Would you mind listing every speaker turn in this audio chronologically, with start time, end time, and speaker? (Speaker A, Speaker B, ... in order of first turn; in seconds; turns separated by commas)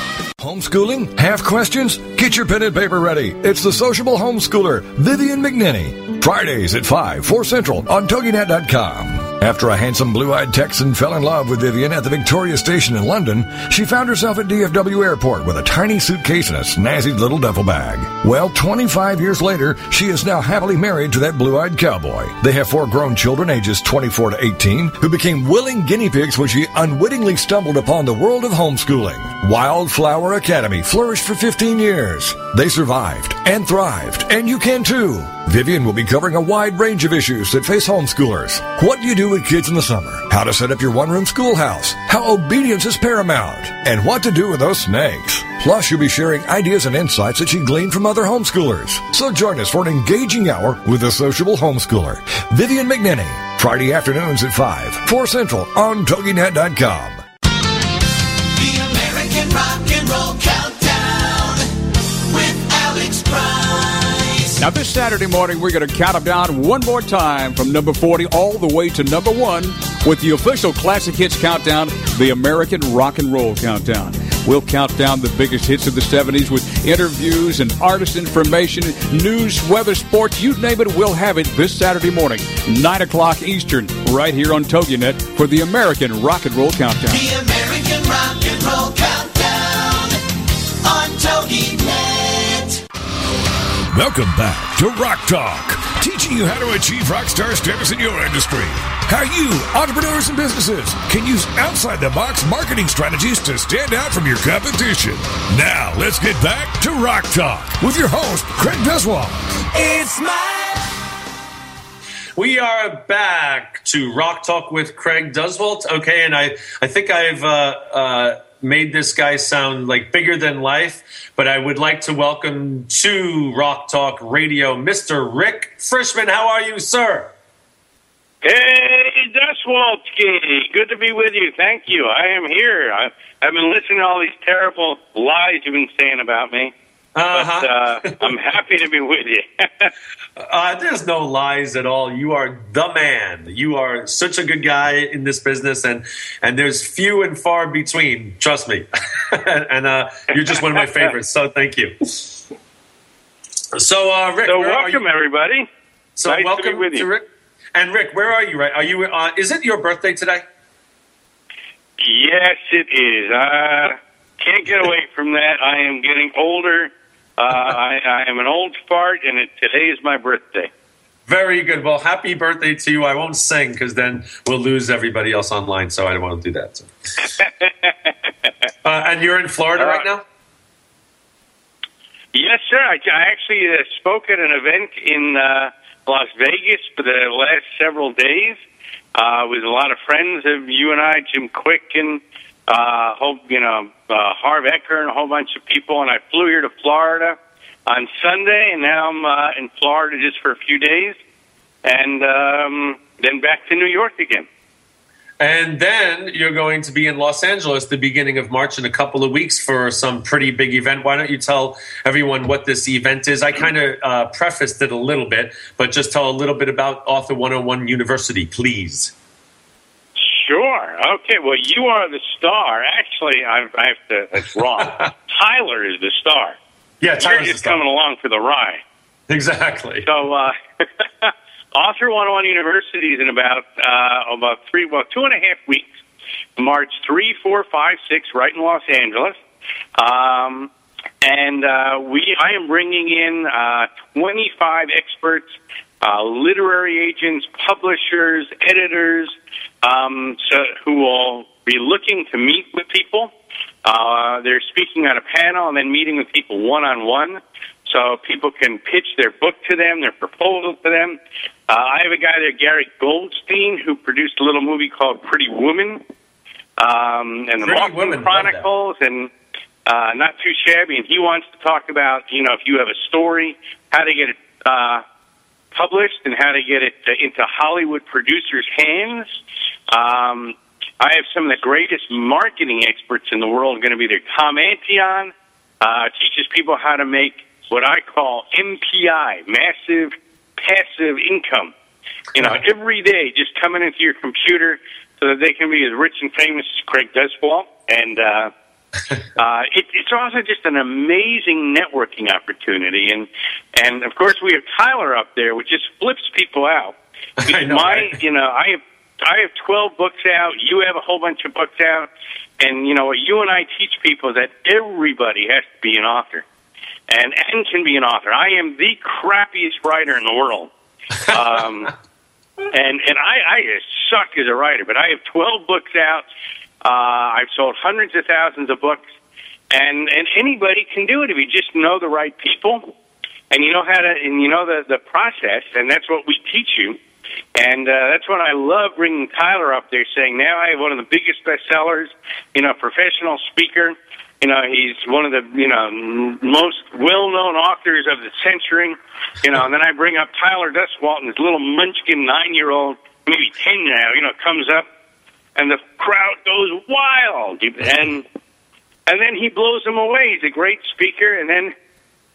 Speaker A: 0.4-57.2, Speaker B: 58.5-61.7, Speaker B: 62.3-64.6, Speaker C: 64.6-87.2, Speaker B: 87.1-90.2, Speaker B: 90.8-92.8, Speaker A: 93.9-109.7, Speaker B: 109.7-111.0, Speaker D: 112.4-127.3, Speaker E: 128.4-136.7, Speaker D: 137.2-138.3, Speaker E: 137.3-139.9, Speaker D: 140.4-152.4, Speaker E: 150.5-151.1, Speaker D: 153.7-155.0, Speaker E: 154.5-155.7, Speaker D: 156.2-160.4, Speaker E: 156.3-157.1, Speaker E: 162.0-170.7, Speaker D: 171.3-176.9, Speaker E: 177.4-178.1, Speaker D: 178.8-180.2, Speaker E: 179.8-180.1, Speaker E: 182.3-188.6, Speaker E: 189.2-201.2, Speaker E: 201.8-204.5, Speaker D: 205.4-219.1, Speaker E: 220.2-226.6, Speaker D: 224.8-225.1, Speaker D: 227.0-227.8, Speaker E: 227.2-228.8, Speaker D: 229.3-230.1, Speaker E: 230.0-235.9, Speaker E: 236.6-239.4, Speaker E: 240.0-240.7, Speaker E: 241.2-253.3, Speaker E: 253.8-266.0, Speaker E: 266.8-269.3, Speaker D: 267.6-268.7, Speaker E: 269.9-275.0, Speaker E: 275.7-279.3, Speaker E: 279.9-291.7, Speaker E: 292.4-298.5, Speaker D: 292.4-292.6, Speaker E: 299.4-316.4, Speaker D: 307.4-308.2, Speaker E: 317.1-320.7, Speaker E: 321.3-321.9, Speaker E: 322.7-326.2, Speaker E: 326.8-329.0, Speaker E: 329.7-332.9, Speaker E: 333.5-337.0, Speaker E: 337.6-354.9, Speaker E: 355.6-358.3, Speaker E: 359.1-361.7